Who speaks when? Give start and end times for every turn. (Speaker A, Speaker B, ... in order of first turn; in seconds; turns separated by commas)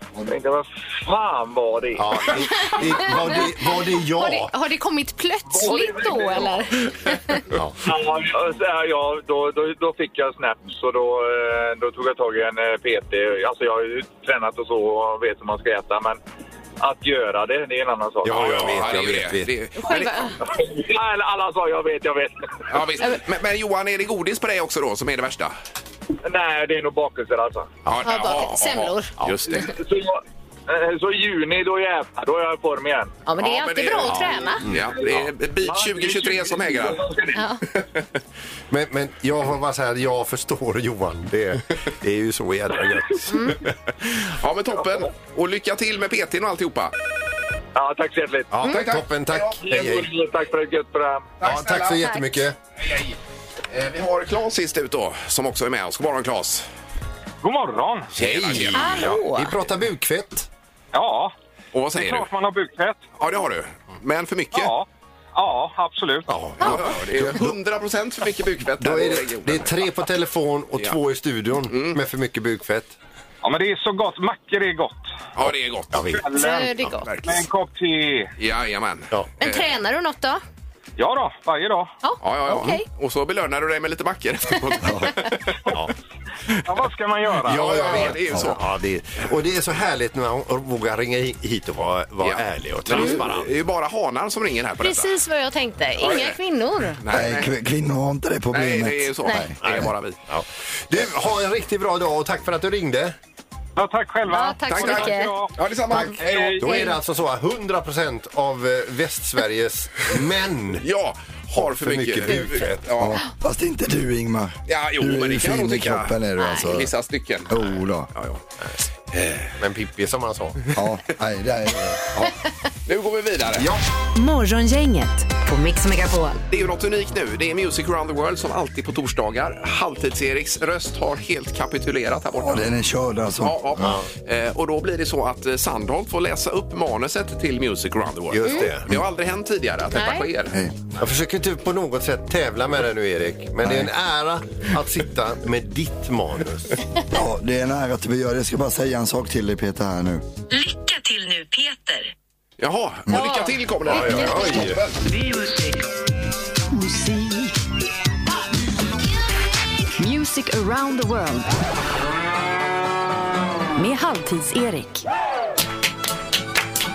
Speaker A: 0.2-2.1, Speaker B: 2.0-4.5, Speaker C: 2.7-3.5, Speaker C: 4.1-7.4, Speaker A: 5.5-6.5, Speaker A: 7.8-16.2, Speaker A: 16.8-18.8, Speaker B: 18.2-19.5, Speaker D: 18.2-20.3, Speaker C: 19.8-20.4, Speaker A: 20.5-22.6, Speaker D: 22.7-25.5, Speaker A: 26.2-27.7, Speaker D: 27.9-29.7, Speaker C: 28.0-29.1, Speaker A: 29.7-33.1, Speaker C: 33.2-34.6, Speaker D: 33.4-37.2, Speaker B: 34.1-35.2, Speaker A: 35.6-37.4, Speaker C: 37.3-37.6, Speaker B: 38.7-43.7, Speaker C: 43.3-43.6, Speaker D: 44.2-46.9, Speaker A: 47.7-48.7, Speaker B: 48.5-50.1, Speaker D: 48.6-49.8, Speaker A: 49.6-51.3, Speaker D: 51.4-52.2, Speaker B: 51.4-52.5, Speaker C: 52.0-52.2, Speaker D: 52.8-53.2, Speaker D: 53.7-56.6, Speaker A: 57.4-58.1, Speaker D: 58.1-59.2, Speaker B: 58.2-60.5, Speaker C: 58.7-59.5, Speaker A: 60.9-61.3, Speaker D: 61.7-62.3, Speaker A: 61.9-63.0, Speaker D: 63.2-64.8, Speaker A: 64.5-66.3, Speaker B: 66.3-67.5, Speaker D: 66.6-69.9, Speaker B: 68.8-72.9, Speaker D: 71.7-72.0, Speaker A: 73.4-75.0, Speaker D: 75.3-76.2, Speaker B: 75.9-76.3, Speaker A: 76.0-78.3, Speaker C: 76.3-77.1, Speaker D: 77.0-77.4, Speaker D: 78.4-79.6, Speaker C: 79.4-80.4, Speaker A: 81.0-81.9, Speaker C: 82.0-82.8, Speaker D: 82.2-85.8, Speaker E: 84.8-85.1, Speaker A: 86.7-88.1, Speaker B: 87.4-93.5, Speaker D: 87.5-88.7, Speaker D: 92.2-95.1, Speaker C: 94.8-97.0, Speaker D: 96.0-96.4, Speaker D: 97.0-97.5, Speaker E: 97.1-99.9, Speaker D: 98.5-100.2, Speaker B: 99.6-103.1, Speaker A: 103.8-106.9, Speaker C: 104.3-105.4, Speaker D: 104.6-106.6, Speaker C: 105.9-106.9, Speaker B: 106.6-110.8, Speaker D: 110.8-113.2, Speaker B: 111.5-112.8, Speaker E: 113.0-116.9, Speaker D: 114.7-118.4, Speaker C: 116.4-116.7, Speaker E: 117.5-118.1, Speaker B: 118.6-120.7, Speaker E: 120.7-122.4, Speaker D: 122.8-123.7, Speaker B: 123.5-123.8, Speaker F: 124.1-126.4, Speaker D: 126.5-132.7, Speaker E: 132.4-133.9, Speaker D: 133.4-140.6, Speaker B: 133.8-134.1, Speaker B: 138.3-139.0, Speaker C: 139.9-140.3, Speaker B: 141.0-146.8, Speaker E: 143.6-143.9, Speaker E: 147.1-150.2, Speaker F: 150.5-152.1, Speaker D: 152.6-155.0, Speaker C: 153.1-154.5, Speaker B: 153.8-154.8, Speaker F: 156.7-157.5, Speaker F: 160.0-161.5, Speaker F: 163.8-165.1